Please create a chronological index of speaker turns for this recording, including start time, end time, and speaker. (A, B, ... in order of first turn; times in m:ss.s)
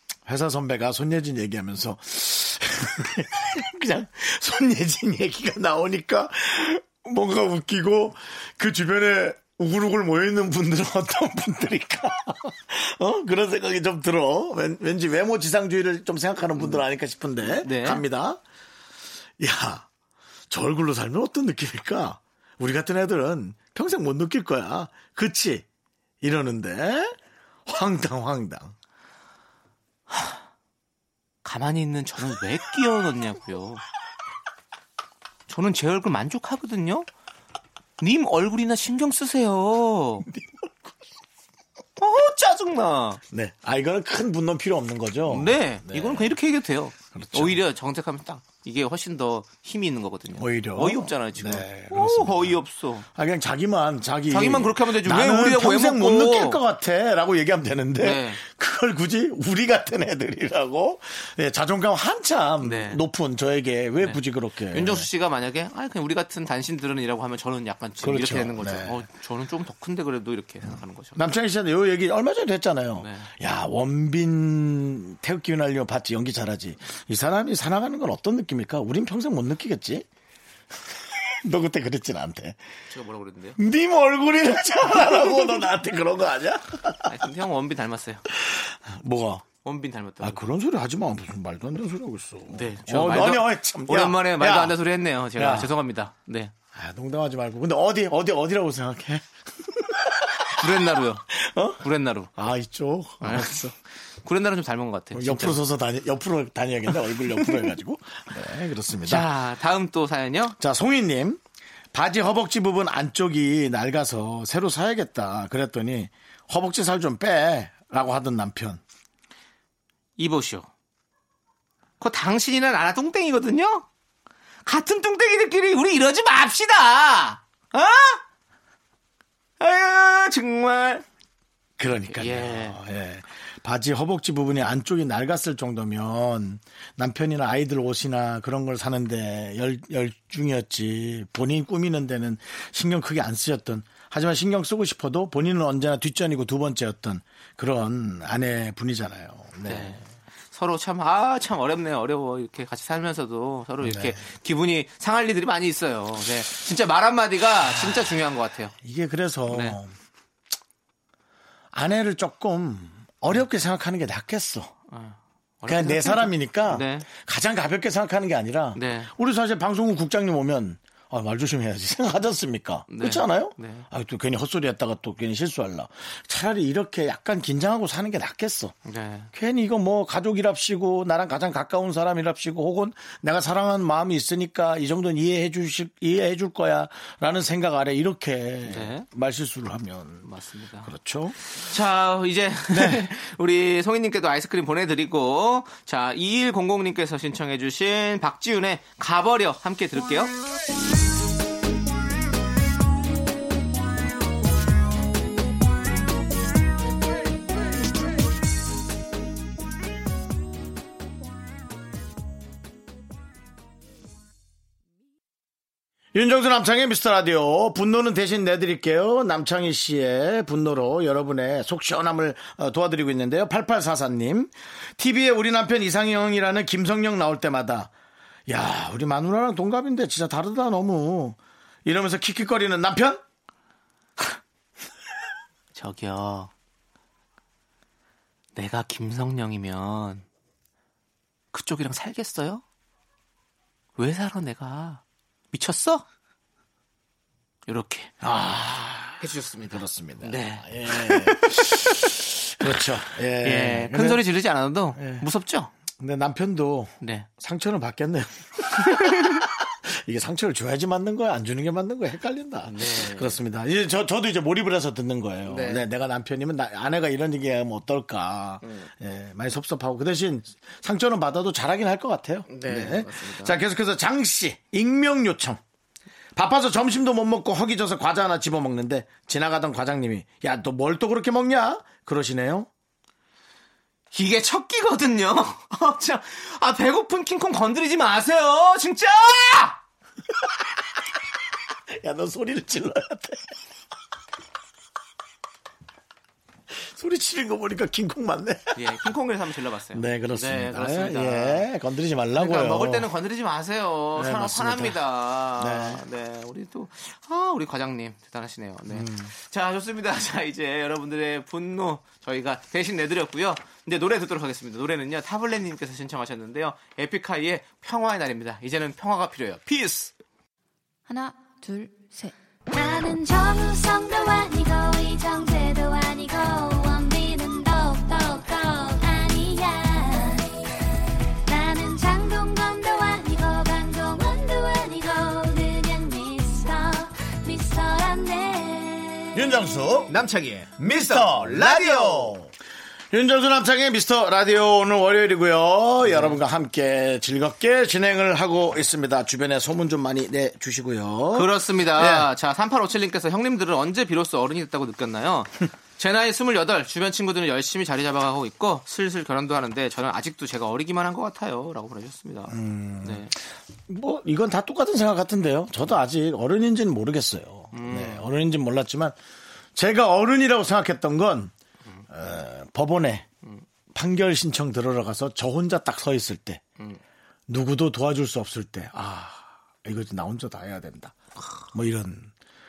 0:00.2-0:18.4 A
0:16.6-0:16.8 B
0:17.4-0:18.0 B
0:19.4-0:19.8 A
0:20.5-0:25.6 A
0:26.2-0:28.7 A
0:30.1-0:30.4 B
0:31.4-0:33.8 B
0:35.5-0:37.1 B
0:38.0-0:40.3 B
0:40.2-0:40.7 A
0:42.0-0:43.2 B
0:43.3-0:46.3 A
0:45.3-0:53.1 B
0:47.1-0:47.6 A
0:50.3-0:52.6 A
0:53.1-1:05.1 A
0:54.3-0:56.6 B
0:58.0-0:58.4 B
1:02.6-1:03.0 B
1:04.0-1:11.2 B
1:08.0-1:09.0 A
1:11.2-1:20.0 A
1:13.0-1:13.3 B
1:21.2-1:22.6 A
1:22.9-1:23.6 B
1:23.6-1:27.2 A
1:27.0-1:28.2 B
1:28.3-1:29.4 A
1:29.6-1:30.4 B
1:30.2-1:34.8 A
1:32.5-1:36.5 B
1:35.4-1:35.7 A
1:36.7-1:40.6 A
1:40.5-1:41.3 B
1:41.3-1:41.8 A
1:41.8-1:42.3 B
1:42.4-1:43.7 A
1:43.2-1:43.7 B
1:44.2-1:45.6 B
1:45.1-1:49.3 A
1:49.0-1:50.6 B
1:50.6-1:51.4 A
1:51.9-1:58.8 A
2:00.2-2:00.7 B
2:02.0-2:03.8 B
2:04.6-2:08.2 B
2:09.6-2:11.0 B
2:11.8-2:30.0 A
2:11.9-2:12.8 B
2:29.6-2:30.0 B
2:30.5-2:38.7 B
2:33.8-2:34.2 A
2:37.7-2:38.2 A
2:38.7-2:39.9 A
2:39.5-2:39.8 B
2:41.7-2:44.7 A
2:44.9-2:47.1 B
2:45.6-2:58.8 A
2:48.8-2:49.1 B
2:52.9-2:53.8 B
2:58.8-2:59.3 B
2:59.3-3:10.3 A
3:08.6-3:09.0 B
3:10.2-3:20.3 B
3:10.8-3:11.4 A
3:12.7-3:13.1 A
3:36.1-3:47.9 A
3:48.5-3:53.2 A
3:55.7-3:56.5 B
3:58.5-4:00.2 B
4:01.5-4:02.6 B
4:04.0-4:05.0 B
4:05.5-4:06.0 B
4:07.7-4:08.1 B
4:08.2-4:14.2 A
4:09.2-4:12.0 B
4:13.4-4:15.7 B
4:15.0-4:15.2 A
4:16.0-4:35.6 A
4:17.0-4:17.3 B
4:18.8-4:19.4 B
4:22.7-4:23.4 B
4:25.4-4:25.8 B
4:28.6-4:28.9 B
4:32.5-4:33.6 B
4:36.3-4:42.7 A
4:44.1-4:49.8 B
4:51.9-4:53.6 A
4:56.7-4:58.9 A
4:58.8-5:01.7 B
4:59.9-5:03.1 A
5:02.4-5:20.1 B
5:04.2-5:05.0 A
5:05.6-5:06.0 A
5:08.9-5:09.3 A
5:22.7-5:30.6 C
5:31.4-5:39.7 C
5:39.3-5:40.2 A
5:40.1-5:42.4 B
5:40.8-5:42.5 A
5:43.1-5:52.3 A
5:46.0-5:46.4 B
5:51.3-6:03.3 B
6:02.5-6:03.4 A
6:03.9-6:09.2 A
6:07.7-6:08.3 B
6:09.7-6:11.5 A
6:12.1-6:13.2 A
6:13.9-6:16.6 A
6:17.5-6:21.1 A
6:21.7-6:22.3 A